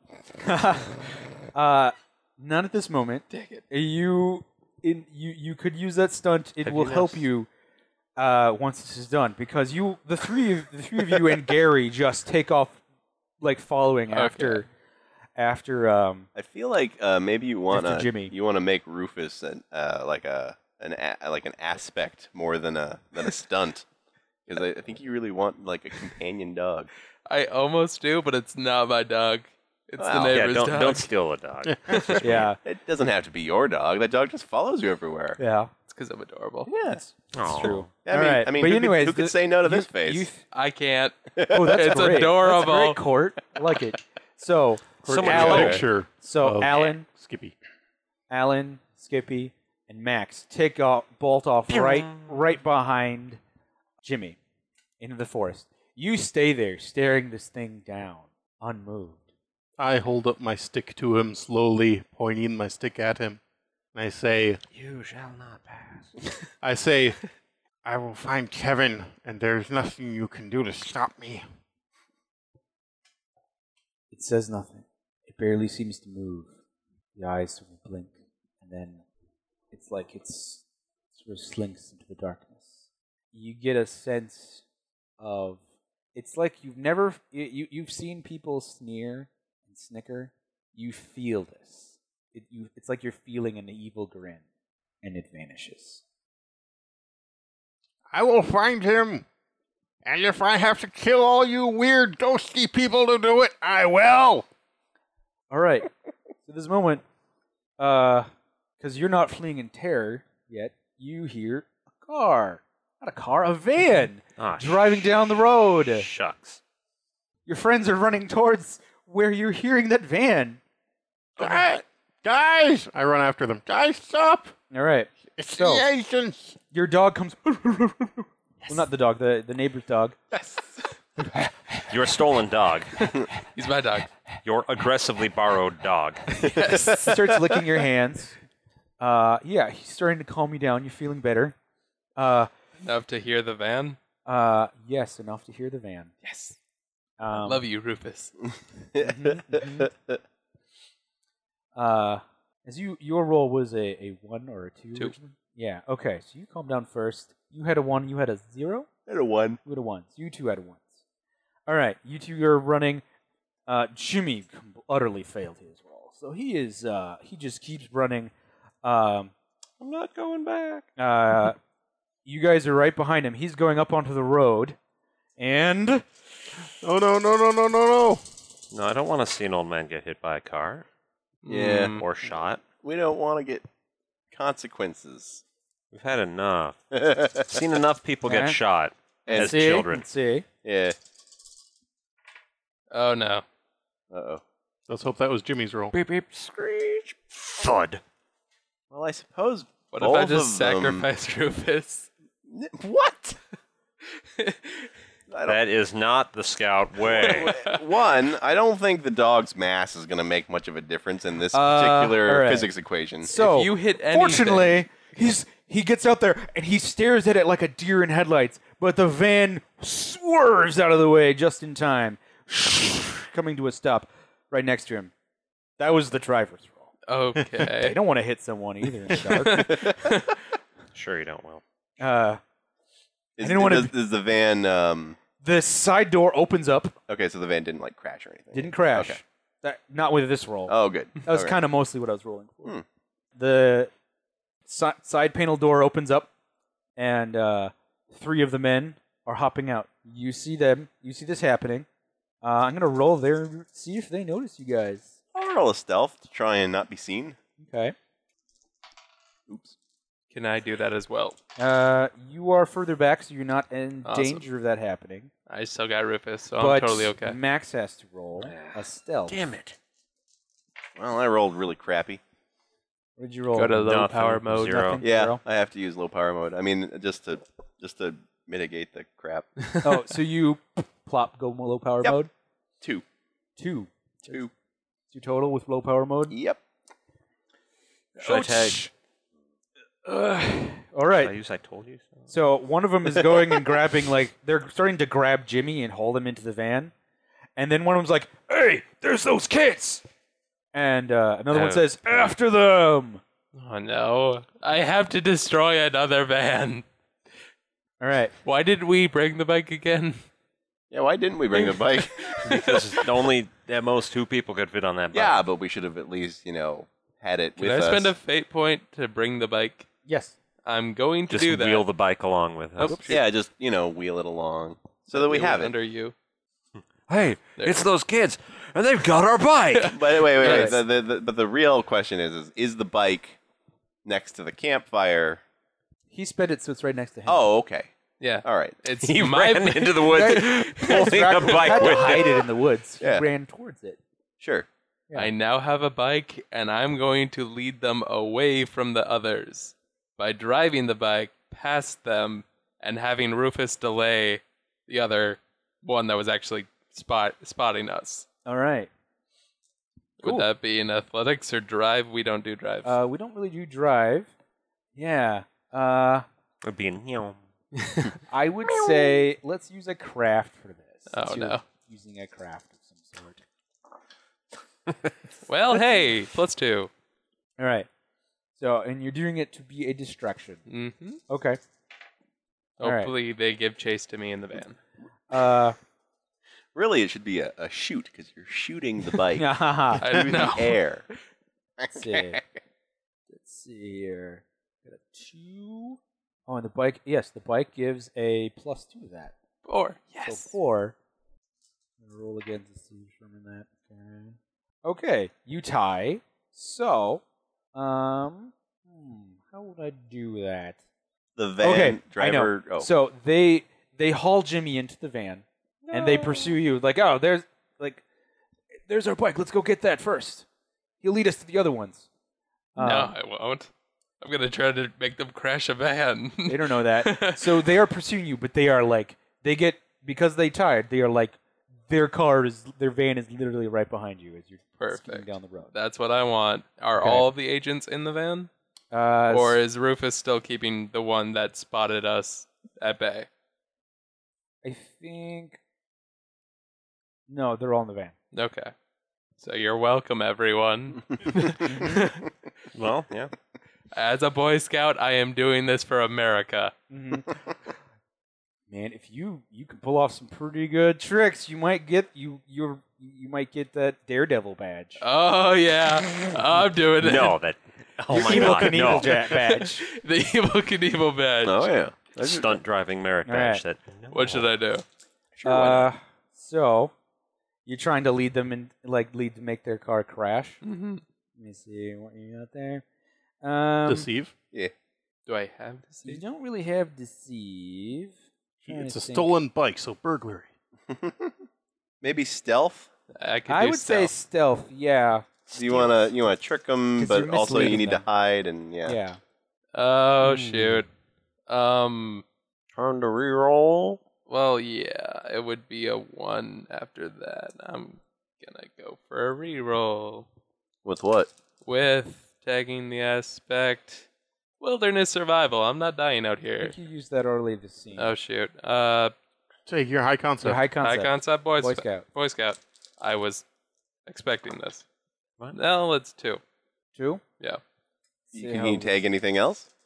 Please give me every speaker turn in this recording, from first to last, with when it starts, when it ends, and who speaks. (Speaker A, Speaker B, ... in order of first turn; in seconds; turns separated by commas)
Speaker A: 0.4-7.5, Speaker B: 3.3-3.6, Speaker C: 6.6-7.2, Speaker A: 8.2-12.8, Speaker A: 13.4-14.7, Speaker B: 14.1-14.6, Speaker A: 15.4-16.3, Speaker D: 16.4-23.9, Speaker A: 17.7-18.3, Speaker D: 24.5-26.9, Speaker B: 27.3-31.1, Speaker D: 30.0-30.4, Speaker C: 30.3-32.5, Speaker E: 31.6-32.0, Speaker B: 31.9-32.2, Speaker A: 32.2-32.6, Speaker D: 32.6-35.4, Speaker A: 35.4-35.7, Speaker B: 35.9-36.7, Speaker D: 36.7-37.1, Speaker A: 36.9-40.4, Speaker C: 37.3-37.9, Speaker D: 38.0-40.3, Speaker B: 40.5-43.0, Speaker D: 41.4-41.8, Speaker A: 41.5-47.1, Speaker E: 45.0-47.5, Speaker C: 45.1-45.9, Speaker A: 48.3-53.4, Speaker C: 51.7-52.3, Speaker A: 54.0-54.4, Speaker A: 55.0-59.2, Speaker E: 59.8-63.4, Speaker E: 64.0-64.6, Speaker C: 64.7-66.2, Speaker E: 66.6-67.2, Speaker E: 67.8-71.5, Speaker A: 74.1-76.6, Speaker A: 77.2-79.0, Speaker A: 79.7-80.6, Speaker A: 81.1-84.6, Speaker A: 85.2-85.6, Speaker A: 86.2-94.4, Speaker A: 95.0-96.0, Speaker E: 98.1-99.2, Speaker E: 100.0-104.5, Speaker A: 105.5-105.9, Speaker A: 106.5-107.0, Speaker A: 107.8-116.1, Speaker C: 114.4-115.0, Speaker C: 115.9-116.6, Speaker A: 117.5-120.6, Speaker E: 121.4-124.5, Speaker A: 124.7-125.8, Speaker E: 125.4-126.6, Speaker A: 126.7-130.2, Speaker C: 131.9-132.9, Speaker B: 133.0-134.1, Speaker C: 134.4-136.5, Speaker B: 136.4-137.1, Speaker D: 136.7-137.1, Speaker A: 136.9-138.3, Speaker A: 139.0-141.6, Speaker A: 142.2-142.5, Speaker B: 142.8-144.0, Speaker A: 144.3-146.1, Speaker B: 146.2-146.6, Speaker A: 147.2-147.7, Speaker B: 147.3-148.3, Speaker D: 148.9-150.2, Speaker A: 149.0-149.9, Speaker A: 151.8-158.9, Speaker D: 159.1-159.6, Speaker A: 159.7-161.0, Speaker A: 161.7-163.0, Speaker A: 163.7-168.3, Speaker A: 168.8-169.3, Speaker C: 169.8-170.9, Speaker A: 171.0-171.6, Speaker A: 172.2-174.8, Speaker A: 175.4-176.1, Speaker E: 176.8-178.2, Speaker C: 178.7-180.8, Speaker B: 181.4-182.0, Speaker D: 181.5-182.0, Speaker C: 182.0-182.6, Speaker D: 182.7-183.7, Speaker D: 184.3-185.4, Speaker C: 185.9-186.8, Speaker D: 186.9-187.6, Speaker C: 187.5-190.1, Speaker A: 188.3-188.6, Speaker D: 189.3-189.7, Speaker A: 189.3-190.5, Speaker D: 190.6-191.0, Speaker B: 192.9-193.4, Speaker D: 194.1-194.4, Speaker E: 194.9-195.9, Speaker C: 195.9-198.0, Speaker D: 198.9-201.1, Speaker B: 199.9-202.1, Speaker D: 202.5-203.4, Speaker B: 204.4-204.9, Speaker D: 205.3-205.6, Speaker C: 205.4-207.6, Speaker D: 207.0-213.3, Speaker B: 207.5-207.8, Speaker A: 211.5-212.7, Speaker A: 213.2-225.1, Speaker B: 213.3-214.9, Speaker A: 225.8-226.9, Speaker B: 227.1-228.0, Speaker A: 227.7-229.8, Speaker B: 229.2-230.3, Speaker D: 229.5-230.0, Speaker C: 230.9-231.6, Speaker A: 232.0-232.4, Speaker D: 233.4-235.2, Speaker A: 233.4-233.9, Speaker A: 235.4-237.0, Speaker D: 237.1-239.2, Speaker A: 238.5-242.8, Speaker D: 240.7-241.6, Speaker A: 243.4-243.9, Speaker A: 244.7-246.3, Speaker A: 247.0-251.9, Speaker A: 252.4-255.1, Speaker D: 255.3-257.4, Speaker A: 257.6-258.0, Speaker D: 259.5-259.8, Speaker B: 260.3-261.4, Speaker A: 261.6-265.3, Speaker B: 264.1-264.4, Speaker B: 265.5-267.4, Speaker A: 266.6-269.4, Speaker C: 268.4-269.8, Speaker D: 271.0-272.2, Speaker A: 273.2-275.4, Speaker B: 273.5-274.8, Speaker C: 273.8-275.0, Speaker D: 275.0-279.5, Speaker A: 279.8-282.3, Speaker A: 283.6-284.4, Speaker A: 285.1-286.4, Speaker D: 286.3-286.6, Speaker A: 288.2-288.9, Speaker C: 288.2-288.8, Speaker A: 290.1-291.4, Speaker C: 291.1-292.2, Speaker A: 292.3-296.9, Speaker A: 297.6-300.0, Speaker A: 300.7-303.2, Speaker C: 301.5-302.3, Speaker B: 303.6-306.9, Speaker A: 308.0-308.3, Speaker B: 308.4-310.2, Speaker D: 310.9-312.3, Speaker B: 311.5-313.1, Speaker C: 312.4-315.4, Speaker D: 315.1-318.1, Speaker B: 317.6-319.9, Speaker A: 320.1-320.4, Speaker B: 320.6-321.9, Speaker C: 321.3-323.2, Speaker A: 322.8-323.1, Speaker D: 323.1-325.7, Speaker B: 325.1-326.1, Speaker C: 327.1-330.7, Speaker B: 329.8-330.8, Speaker D: 329.9-333.4, Speaker A: 330.4-330.8, Speaker D: 334.1-335.4, Speaker A: 336.1-337.5, Speaker D: 337.3-337.9, Speaker B: 338.2-341.9, Speaker D: 338.4-338.8, Speaker C: 339.0-342.5, Speaker A: 340.1-344.0, Speaker D: 343.0-343.3, Speaker D: 344.4-344.7, Speaker B: 345.1-358.3, Speaker A: 358.4-358.9, Speaker B: 360.2-363.0, Speaker A: 360.2-360.5, Speaker A: 362.8-364.3, Speaker A: 365.0-366.3, Speaker C: 366.6-367.4, Speaker B: 367.8-368.1, Speaker A: 368.3-373.4, Speaker B: 371.1-371.6, Speaker B: 375.5-376.9, Speaker A: 377.6-377.9, Speaker A: 378.6-380.6, Speaker B: 380.7-381.2, Speaker A: 381.3-381.6, Speaker B: 382.8-384.8, Speaker A: 382.8-383.1, Speaker A: 385.3-385.8, Speaker D: 386.8-391.1, Speaker A: 389.3-390.2, Speaker B: 390.0-390.8, Speaker D: 391.8-392.5, Speaker A: 391.9-392.4, Speaker A: 393.3-399.4, Speaker B: 399.6-400.6, Speaker A: 400.2-400.9, Speaker A: 402.0-407.2, Speaker A: 407.7-410.8, Speaker D: 411.4-412.9, Speaker A: 411.6-418.0, Speaker A: 418.9-420.5, Speaker A: 421.0-422.1, Speaker A: 422.8-423.1, Speaker B: 422.8-423.7, Speaker B: 424.2-427.6, Speaker A: 426.4-435.7, Speaker B: 434.8-438.5, Speaker A: 437.0-437.3, Speaker A: 438.9-439.6, Speaker B: 439.3-443.3, Speaker A: 444.6-445.6, Speaker A: 447.3-448.1, Speaker B: 448.3-448.7, Speaker B: 449.4-452.3, Speaker A: 451.6-452.1, Speaker C: 452.7-453.3, Speaker B: 453.9-456.7, Speaker A: 456.9-457.3, Speaker A: 458.7-465.0, Speaker B: 465.0-467.4, Speaker C: 467.0-469.4, Speaker A: 468.1-469.9, Speaker B: 468.1-471.7, Speaker D: 471.4-472.6, Speaker C: 472.2-474.5, Speaker A: 473.2-473.6, Speaker B: 474.1-474.8, Speaker D: 475.4-475.9, Speaker A: 475.4-476.9, Speaker A: 477.7-480.6, Speaker B: 480.6-481.0, Speaker A: 481.4-482.8, Speaker A: 483.4-484.1, Speaker E: 483.9-484.3, Speaker B: 485.3-486.2, Speaker A: 486.0-489.4, Speaker E: 488.6-490.5, Speaker D: 490.9-491.3, Speaker D: 492.0-492.9, Speaker B: 493.1-494.1, Speaker A: 493.5-495.3, Speaker C: 495.5-496.1, Speaker D: 495.5-499.0, Speaker A: 497.0-498.1, Speaker A: 498.9-499.2, Speaker B: 499.7-500.9, Speaker A: 500.3-500.8, Speaker B: 501.5-502.2, Speaker C: 502.8-504.0, Speaker B: 504.3-510.3, Speaker D: 510.9-511.3, Speaker B: 511.6-514.1, Speaker B: 514.6-516.8, Speaker A: 516.6-518.1, Speaker B: 518.0-519.1, Speaker E: 519.7-520.6, Speaker A: 520.4-522.1, Speaker B: 520.8-523.5, Speaker B: 524.1-524.9, Speaker B: 525.5-526.4, Speaker A: 527.0-527.2, Speaker A: 528.3-529.0, Speaker D: 528.3-529.7